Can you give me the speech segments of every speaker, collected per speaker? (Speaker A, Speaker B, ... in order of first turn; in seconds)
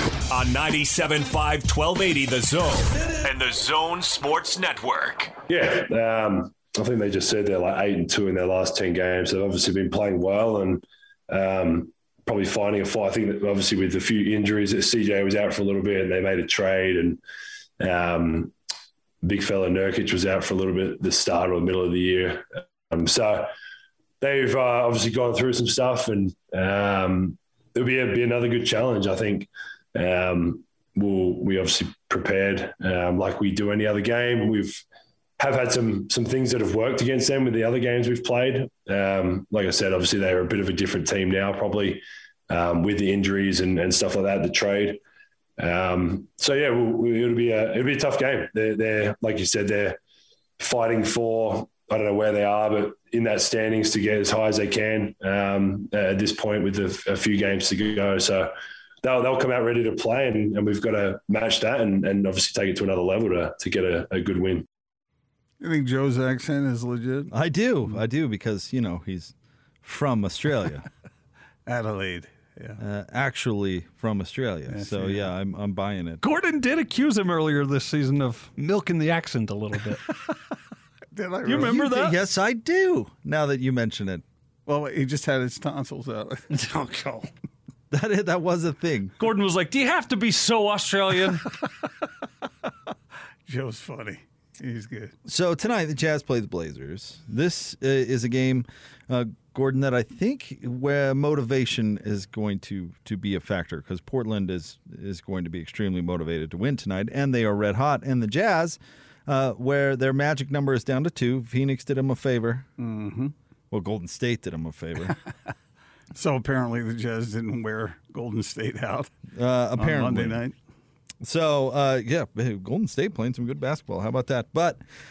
Speaker A: 0.3-5.3
Speaker B: 5.5-17.2, 17.8-18.5, 19.2-23.5, 24.2-34.8, 35.4-45.0, 45.6-50.0, 50.6-58.5, 59.0-64.6
Speaker C: 65.6-67.3, 71.7-72.8, 74.7-75.3, 81.1-81.8, 84.7-86.5, 93.5-95.1, 112.8-113.3, 116.1-119.1, 119.8-120.5
Speaker D: 67.3-69.3, 69.8-70.9, 72.8-76.2, 81.5-84.2, 87.9-89.2, 95.2-112.7, 113.7-115.2, 119.3-120.4, 121.2-124.8
Speaker E: 76.2-80.1, 81.5-82.2, 86.5-87.3, 89.2-91.5